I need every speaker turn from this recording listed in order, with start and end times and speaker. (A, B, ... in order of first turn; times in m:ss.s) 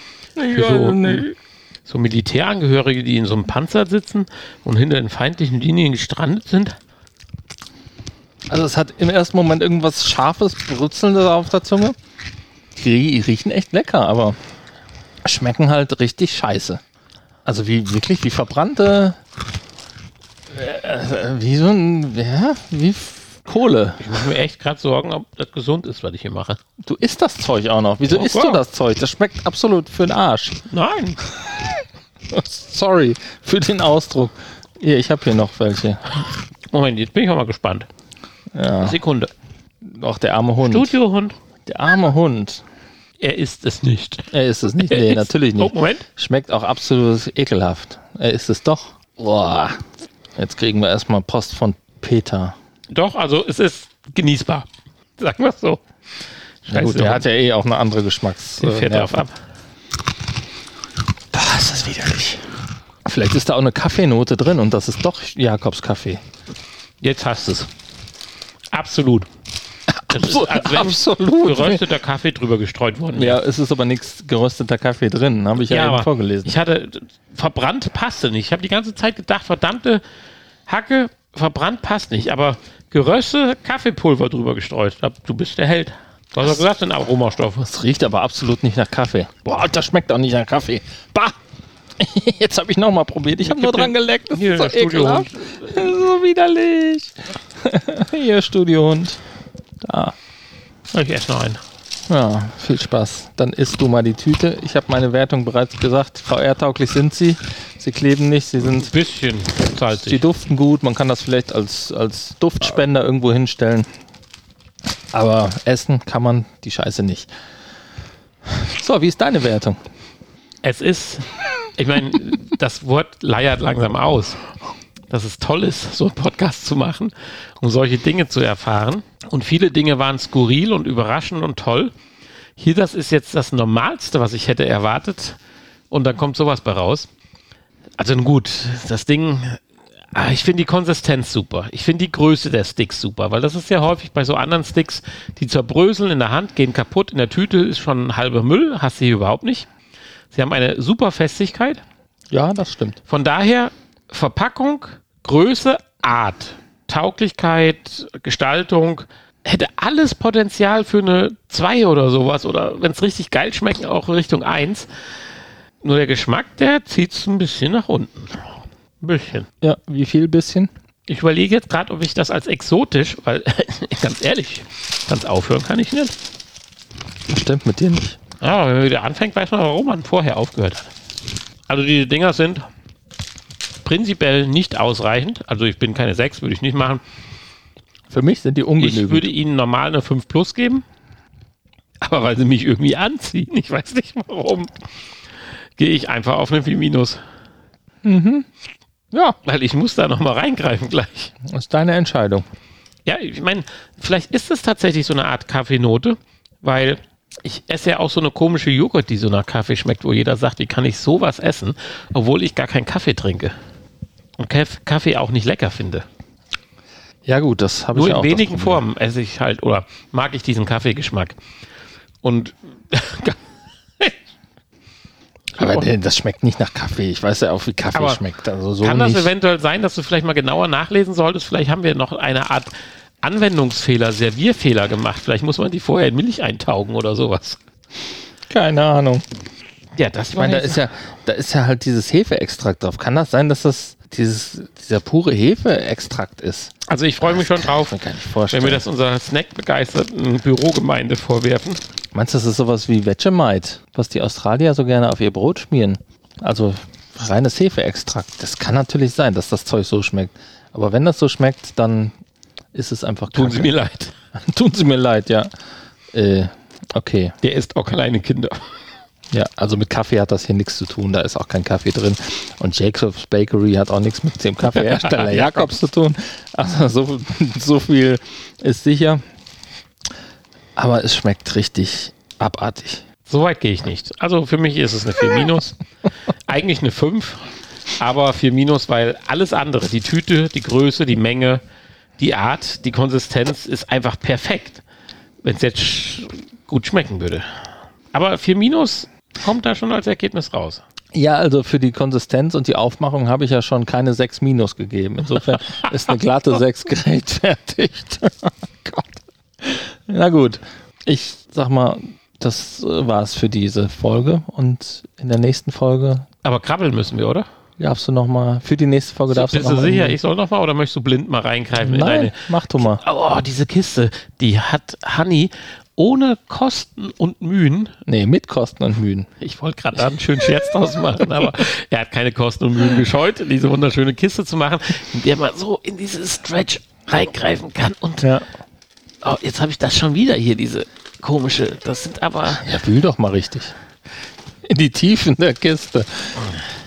0:00.4-0:01.3 A
0:00.5-0:01.3 B
0:01.8-0:06.8 B
0:08.5-0:11.9 A
0:12.8-0:14.4 A
0:15.2-0:16.8 A
0:17.4-0:19.2 A
0:20.5-0:24.2 A
0:24.0-0:26.6 B
0:26.8-0:30.6 A
0:28.0-0:28.6 B
0:30.7-0:31.2 B
0:31.4-0:31.7 A
0:32.3-0:36.2 A
0:36.7-0:37.9 B
0:38.5-0:39.0 A
0:38.8-0:39.3 B
0:39.8-0:41.0 A
0:40.6-0:41.3 B
0:41.7-0:42.6 A
0:43.2-0:46.0 B
0:44.3-0:49.8 A
0:50.4-0:52.5 A
0:52.9-0:55.8 B
0:56.6-0:57.3 B
0:56.7-0:59.2 A
0:58.6-0:59.4 B
1:01.3-1:02.4 A
1:03.1-1:06.2 A
1:07.0-1:07.7 B
1:08.7-1:09.3 B
1:10.0-1:11.9 A
1:10.1-1:13.4 B
1:13.1-1:16.6 A
1:15.6-1:20.0 B
1:20.7-1:27.7 B
1:27.6-1:31.3 A
1:32.0-1:39.2 A
1:33.4-1:36.0 B
1:39.8-1:40.1 A
1:40.9-1:41.6 B
1:42.1-1:48.9 A
1:48.6-1:50.2 B
1:49.9-1:53.9 A
1:55.1-1:57.3 A
1:58.5-1:59.8 A
2:00.6-2:01.2 B
2:01.8-2:04.4 B
2:05.1-2:11.9 B
2:12.6-2:15.4 B
2:15.9-2:17.1 B
2:18.0-2:19.6 B
2:20.1-2:29.7 B
2:30.3-2:31.8 B
2:32.3-2:33.0 A
2:33.0-2:44.9 B
2:45.8-2:49.5 B
2:49.6-2:50.7 A
2:51.1-2:56.1 B
2:57.3-2:58.2 A
2:58.4-3:00.9 B
3:01.7-3:02.7 B
3:03.8-3:07.0 B
3:08.1-3:09.3 A
3:08.8-3:10.8 B
3:12.0-3:14.7 B
3:15.8-3:17.2 B
3:18.0-3:18.4 A
3:19.1-3:19.4 A
3:19.4-3:21.3 B
3:21.5-3:22.4 A
3:23.0-3:33.5 B
3:34.4-3:36.0 B
3:37.2-3:38.8 A
3:37.9-3:41.4 B
3:42.2-3:43.4 B
3:45.6-3:45.9 B
3:45.6-3:49.3 A
3:47.9-3:48.2 B
3:48.8-3:57.6 B
3:58.5-3:59.2 A
4:00.0-4:00.8 B
4:00.3-4:06.7 A
4:06.9-4:08.0 B
4:07.2-4:08.8 A
4:08.5-4:11.8 B
4:12.1-4:22.1 A
4:22.7-4:23.7 A
4:23.3-4:24.1 B
4:24.4-4:25.5 A
4:26.1-4:27.3 A
4:27.4-4:28.6 B
4:29.3-4:39.2 A
4:34.7-4:35.7 B
4:40.8-4:43.0 A
4:43.2-4:45.8 B
4:46.5-4:51.6 B
4:52.2-4:54.8 B
4:55.4-4:57.5 B
4:58.1-5:00.8 B
5:01.1-5:16.2 A
5:16.4-5:17.5 B
5:17.8-5:20.2 A
5:19.3-5:27.9 B
5:21.8-5:23.0 A
5:28.0-5:29.3 A
5:29.4-5:38.3 B
5:38.2-5:38.5 A
5:39.2-5:42.7 B
5:42.5-5:43.8 A
5:44.6-5:46.5 A